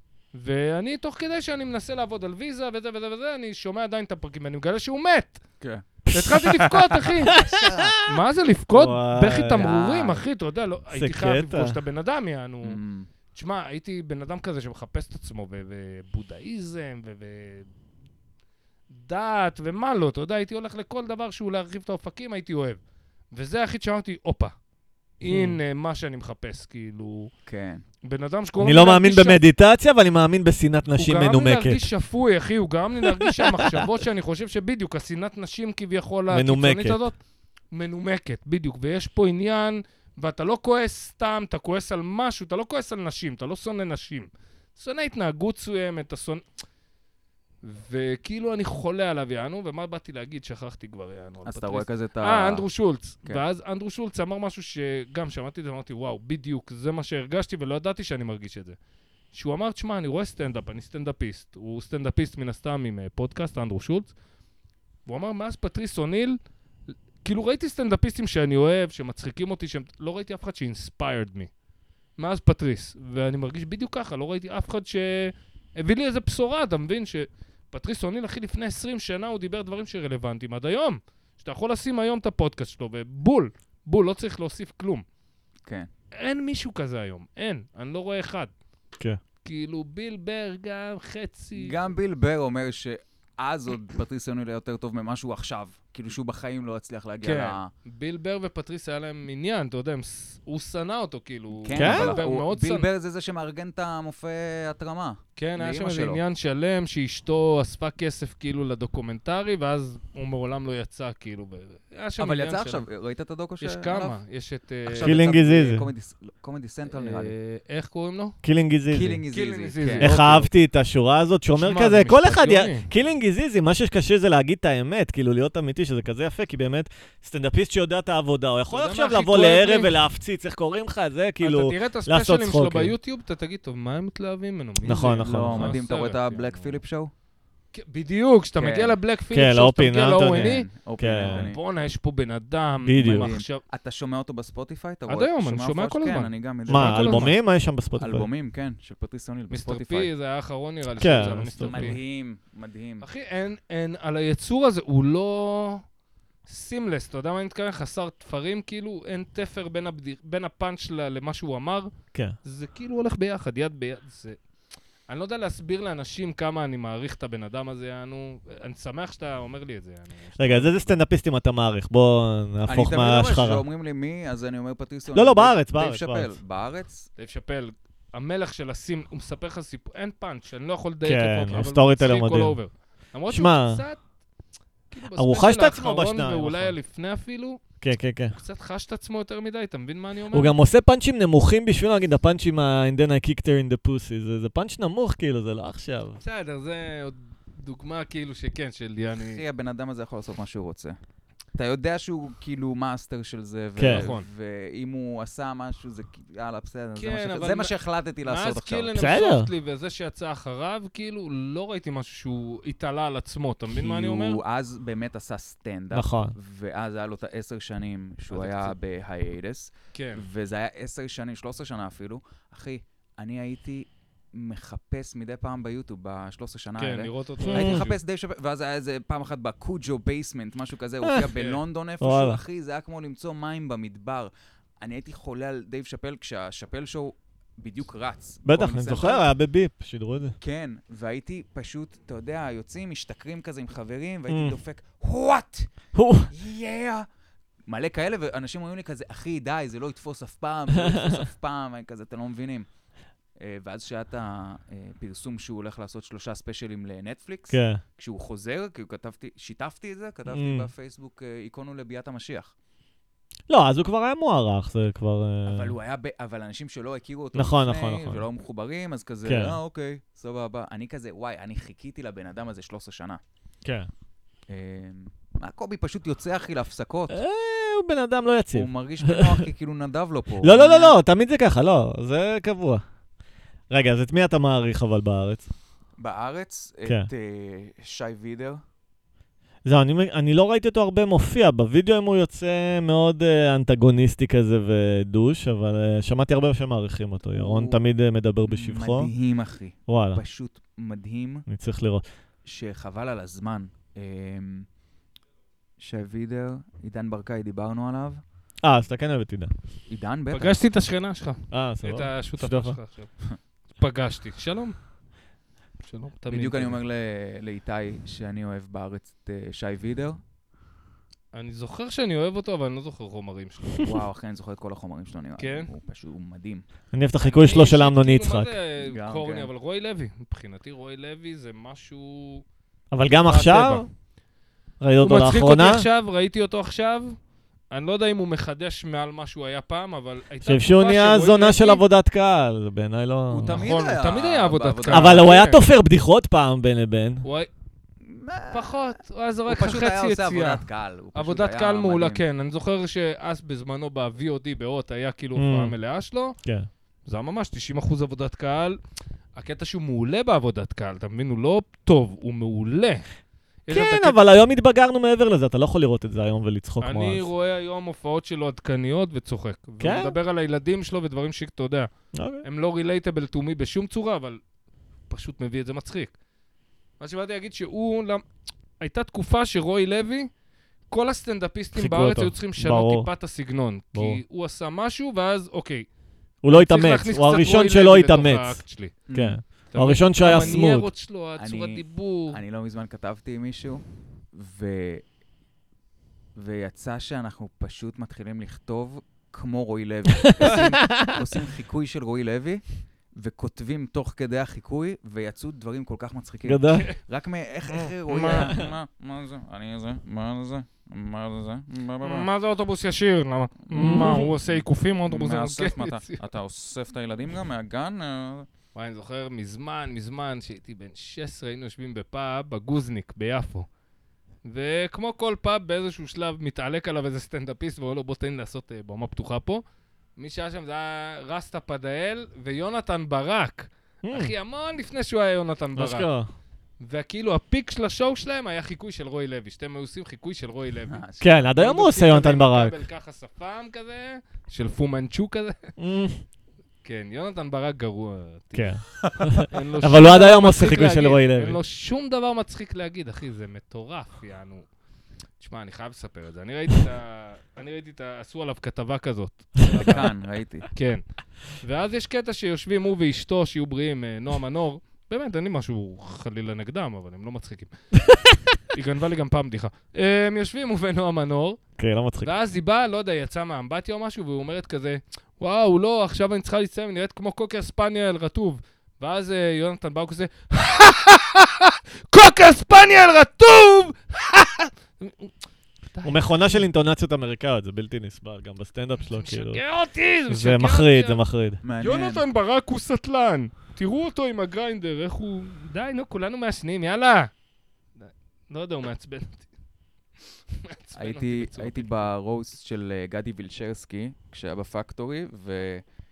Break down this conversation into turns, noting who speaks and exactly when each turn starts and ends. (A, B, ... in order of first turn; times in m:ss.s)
0:00.3-0:05.4 A
0:06.1-0:08.1 B
0:06.1-0:07.4 A
0:07.4-0:07.9 C
0:08.0-0:12.8 A
0:08.7-0:09.7 B
0:09.6-0:10.2 C
0:10.9-0:11.8 B
0:12.6-0:13.1 C
0:13.3-0:17.7 A
0:18.9-0:22.8 A
0:23.3-0:24.5 A
0:25.2-0:27.3 A
0:27.4-0:27.8 C
0:28.0-0:29.4 A
0:28.6-0:31.8 B
0:31.0-0:37.2 A
0:33.0-0:33.9 B
0:36.3-0:37.0 B
0:37.7-0:46.4 A
0:47.6-0:58.8 A
0:51.4-0:52.6 C
0:59.3-1:04.1 A
1:05.0-1:06.4 A
1:07.2-1:11.5 A
1:12.2-1:25.0 A
1:26.2-1:28.5 A
1:29.4-1:31.9 A
1:31.6-1:37.7 C
1:37.2-1:42.9 A
1:41.5-1:46.2 C
1:41.7-1:42.2 B
1:45.4-1:52.8 A
1:52.2-1:54.2 C
1:53.6-1:55.2 A
1:54.9-1:57.3 C
1:55.0-1:55.9 B
1:56.9-1:58.3 A
1:58.4-1:59.2 B
1:58.9-2:00.4 C
1:59.3-2:00.4 A
2:00.0-2:12.9 B
2:01.5-2:02.9 A
2:08.7-2:09.9 A
2:11.4-2:16.8 A
2:14.8-2:15.8 B
2:14.8-2:17.1 C
2:17.7-2:20.7 A
2:18.6-2:19.0 C
2:19.3-2:21.5 B
2:20.3-2:21.6 C
2:21.2-2:23.6 A
2:22.8-2:23.3 B
2:23.1-2:27.4 C
2:25.1-2:27.3 A
2:26.7-2:28.3 B
2:28.0-2:30.1 C
2:29.5-2:32.0 A
2:31.0-2:32.0 B
2:31.6-2:33.0 C
2:33.0-2:35.8 A
2:36.5-2:41.9 A
2:42.4-2:44.4 A
2:45.1-2:51.0 A
2:50.4-2:53.6 B
2:52.6-2:57.1 C
2:55.1-2:56.4 B
2:57.2-3:04.0 A
3:01.0-3:02.6 B
3:03.3-3:03.8 B
3:04.9-3:07.6 A
3:05.1-3:06.8 B
3:07.8-3:08.4 B
3:08.3-3:10.5 A
3:10.3-3:16.2 B
3:16.2-3:19.4 A
3:19.1-3:21.0 C
3:21.5-3:28.9 C
3:23.8-3:24.1 B
3:23.9-3:24.3 A
3:27.0-3:34.4 A
3:28.9-3:29.5 B
3:33.7-3:59.3 C
3:35.9-3:36.3 B
3:38.3-3:38.7 A
3:39.9-3:40.2 A
3:46.8-3:48.0 A
3:47.4-3:47.8 B
3:51.0-3:51.3 B
3:51.3-3:51.6 A
3:52.0-3:52.4 B
3:58.4-4:00.3 B
4:00.4-4:05.7 C
4:04.3-4:04.6 B
4:05.9-4:06.3 B
4:06.3-4:07.1 C
4:07.7-4:12.6 C
4:10.8-4:11.2 B
4:13.4-4:22.5 C
4:17.5-4:17.8 B
4:20.3-4:20.7 B
4:23.5-4:25.7 B
4:25.4-4:33.2 C
4:27.3-4:28.2 B
4:29.2-4:29.6 B
4:33.6-4:33.9 B
4:34.5-4:37.2 C
4:37.1-4:39.4 B
4:38.5-4:41.0 C
4:40.4-4:42.8 B
4:43.7-4:45.4 B
4:46.0-4:48.6 C
4:49.6-4:59.1 B
4:57.3-4:57.8 C
4:58.4-5:01.4 C
4:59.9-5:00.2 B
5:01.5-5:02.0 B
5:02.4-5:04.7 C
5:05.8-5:08.2 C
5:08.6-5:09.5 B
5:09.9-5:10.6 C
5:10.3-5:14.7 A
5:11.5-5:12.8 B
5:15.8-5:16.8 A
5:16.3-5:20.2 C
5:21.3-5:23.9 A
5:23.8-5:26.6 C
5:25.4-5:25.7 A
5:26.9-5:28.5 B
5:27.2-5:32.4 A
5:28.8-5:29.5 C
5:32.9-5:33.8 B
5:33.2-5:33.9 A
5:34.8-5:35.8 B
5:35.0-5:37.2 A
5:37.7-5:41.8 A
5:40.4-5:43.6 B
5:43.3-5:45.3 C
5:43.5-5:45.6 A
5:44.9-5:47.2 B
5:47.2-5:47.5 A
5:48.1-5:52.2 C
5:48.5-5:50.6 A
5:51.1-5:56.4 A
5:55.4-5:55.8 B
5:57.0-5:58.8 A
5:59.4-6:03.0 A
6:03.7-6:04.2 A
6:03.7-6:07.3 B
6:06.8-6:11.9 A
6:09.8-6:10.2 B
6:12.1-6:12.4 B
6:12.4-6:14.4 A
6:15.1-6:16.1 A
6:17.0-6:18.2 A
6:18.8-6:20.3 A
6:20.9-6:25.9 A
6:21.8-6:23.1 B
6:23.9-6:24.2 B
6:26.4-6:28.6 B
6:26.5-6:29.0 A
6:29.1-6:29.4 C
6:29.1-6:30.9 B
6:29.7-6:32.4 A
6:30.2-6:30.6 C
6:31.4-6:35.0 C
6:36.4-6:52.3 C
6:40.2-6:41.2 B
6:46.4-6:46.9 B
6:47.7-6:48.6 A
6:48.3-6:48.7 B
6:52.0-6:56.2 A
6:53.7-6:54.3 B
6:53.8-6:58.5 C
6:58.7-7:03.7 A
7:04.4-7:09.6 A
7:10.2-7:16.1 A
7:14.0-7:14.3 B
7:15.8-7:16.3 B
7:16.8-7:25.7 A
7:20.9-7:21.3 C
7:21.2-7:22.7 B
7:25.8-7:26.2 B
7:26.8-7:28.8 A
7:28.5-7:31.6 B
7:29.0-7:29.3 C
7:29.4-7:34.6 A
7:35.4-7:40.1 A
7:39.7-7:40.7 C
7:40.7-7:48.0 A
7:48.6-7:51.6 A
7:51.8-7:52.3 B
7:52.2-8:05.3 A
8:05.9-8:06.6 A
8:06.0-8:09.6 B
8:09.1-8:11.2 A
8:10.3-8:11.6 B
8:11.6-8:12.2 C
8:11.8-8:17.3 A
8:18.0-8:19.5 A
8:20.5-8:22.1 A
8:20.9-8:25.8 C